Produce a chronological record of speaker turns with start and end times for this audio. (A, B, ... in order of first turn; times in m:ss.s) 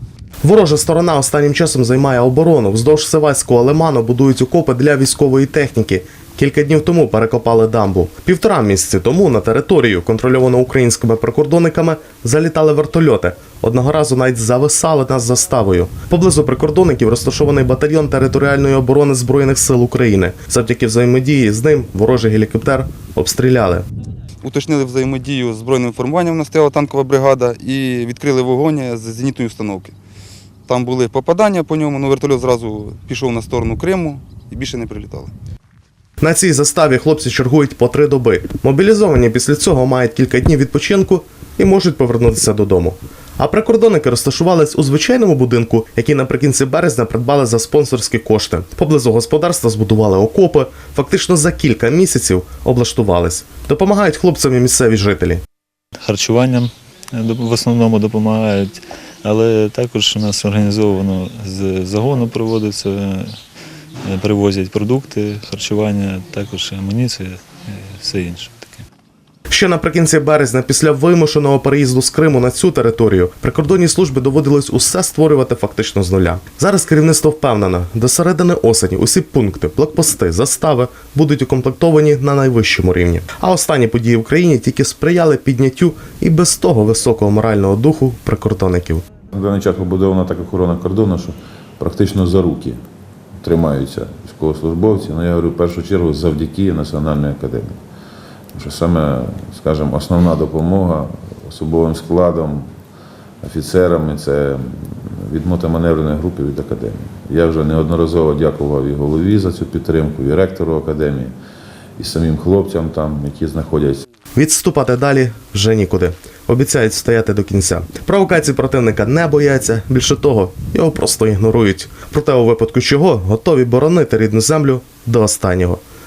0:00.4-0:23.8 A
0:24.4-0:29.9 B
0:30.7-0:35.3 B
0:36.2-0:55.4 A
0:56.0-1:03.4 C
1:04.0-1:08.8 C
1:09.5-1:29.0 A
1:29.3-1:32.8 D
1:33.4-1:37.8 D
1:38.5-1:42.7 D
1:43.4-1:51.3 D
1:52.0-1:54.0 D
1:54.4-2:05.8 A